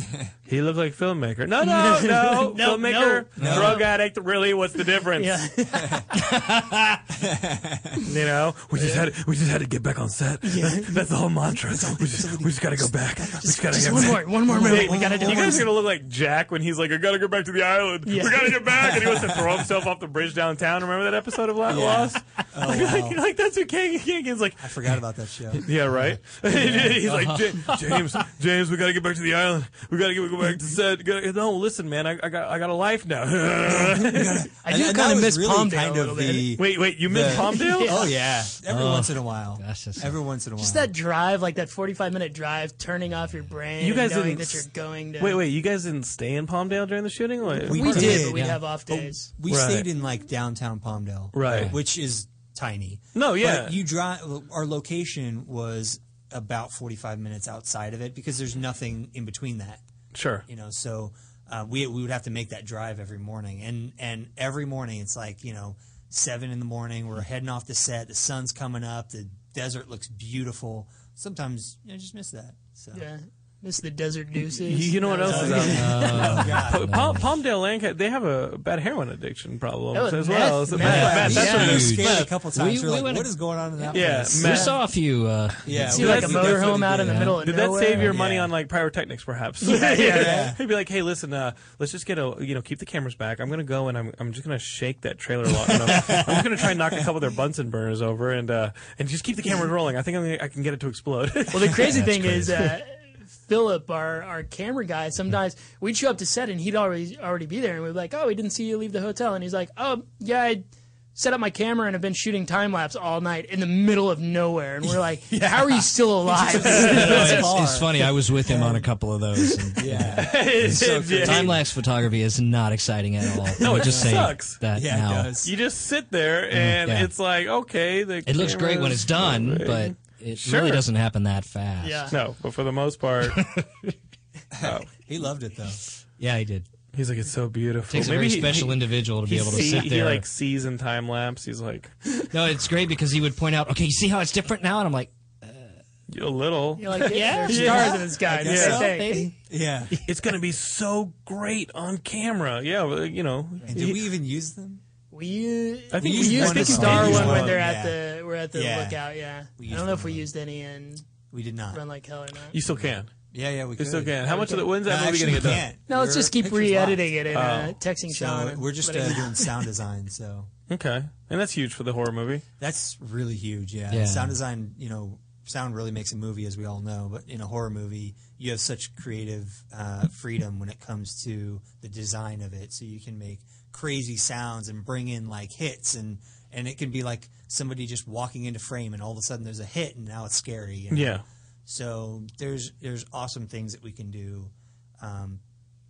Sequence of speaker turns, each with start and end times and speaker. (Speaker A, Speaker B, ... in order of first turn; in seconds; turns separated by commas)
Speaker A: 0.5-5.4, Speaker B: 1.6-3.9, Speaker C: 3.4-3.8, Speaker D: 3.4-3.8, Speaker B: 5.2-6.1, Speaker C: 6.1-7.0, Speaker D: 7.2-8.0, Speaker A: 8.0-24.8, Speaker B: 8.8-9.1, Speaker B: 10.4-11.0, Speaker D: 11.9-13.7, Speaker B: 13.4-15.7, Speaker D: 14.5-15.7, Speaker B: 18.1-18.9, Speaker D: 21.7-23.2, Speaker D: 24.6-27.0, Speaker A: 25.5-34.5, Speaker C: 27.0-28.1, Speaker D: 33.7-40.9, Speaker B: 34.6-36.6, Speaker A: 36.6-38.1, Speaker B: 37.3-38.1, Speaker C: 38.7-40.1, Speaker B: 40.6-45.4, Speaker A: 43.8-44.7, Speaker A: 45.2-48.2, Speaker D: 47.6-59.8, Speaker C: 47.7-48.6, Speaker B: 47.7-49.3, Speaker A: 49.5-49.9, Speaker A: 51.3-51.7, Speaker C: 51.5-51.8, Speaker A: 53.1-53.8, Speaker A: 60.1-60.4, Speaker D: 60.5-73.1, Speaker B: 72.9-76.4, Speaker A: 74.5-82.3, Speaker D: 75.2-77.0, Speaker C: 75.6-77.4, Speaker B: 79.9-81.9, Speaker D: 80.8-84.7, Speaker C: 80.8-86.0, Speaker A: 83.9-84.8, Speaker B: 84.5-84.8, Speaker D: 85.7-87.2, Speaker A: 85.8-101.9, Speaker B: 85.9-88.1, Speaker C: 86.9-88.2, Speaker D: 88.0-88.5, Speaker B: 89.6-90.5, Speaker D: 89.7-90.6, Speaker C: 96.0-96.2, Speaker D: 96.0-97.1, Speaker B: 101.5-110.6, Speaker C: 101.8-102.6, Speaker B: 111.2-117.5, Speaker D: 115.3-118.9, Speaker C: 116.7-125.3, Speaker A: 117.0-117.4, Speaker D: 119.8-121.6, Speaker A: 120.2-121.6, Speaker A: 123.6-124.6, Speaker D: 123.7-125.5, Speaker A: 125.4-130.8, Speaker C: 126.5-127.1, Speaker C: 128.3-132.1, Speaker B: 131.8-132.2, Speaker A: 132.1-133.4, Speaker C: 133.3-133.9, Speaker D: 134.5-135.8, Speaker A: 134.6-134.9, Speaker C: 136.2-136.7, Speaker A: 136.9-141.9, Speaker C: 137.9-140.3, Speaker C: 142.3-145.8, Speaker A: 146.1-148.9, Speaker B: 146.8-149.3, Speaker C: 146.9-148.0, Speaker D: 148.2-149.9, Speaker C: 148.8-149.3, Speaker A: 150.1-154.0, Speaker D: 153.7-154.8, Speaker B: 155.1-161.0, Speaker A: 155.9-157.6, Speaker D: 156.0-158.0, Speaker D: 158.5-160.3, Speaker D: 161.3-161.8, Speaker B: 161.7-162.6, Speaker A: 162.5-163.1, Speaker D: 162.7-167.2, Speaker A: 163.8-165.7, Speaker B: 164.3-164.7, Speaker B: 165.9-169.5, Speaker A: 167.3-167.8, Speaker D: 168.1-170.5, Speaker A: 170.7-172.4, Speaker D: 172.6-195.4, Speaker C: 173.9-174.4, Speaker A: 190.9-191.2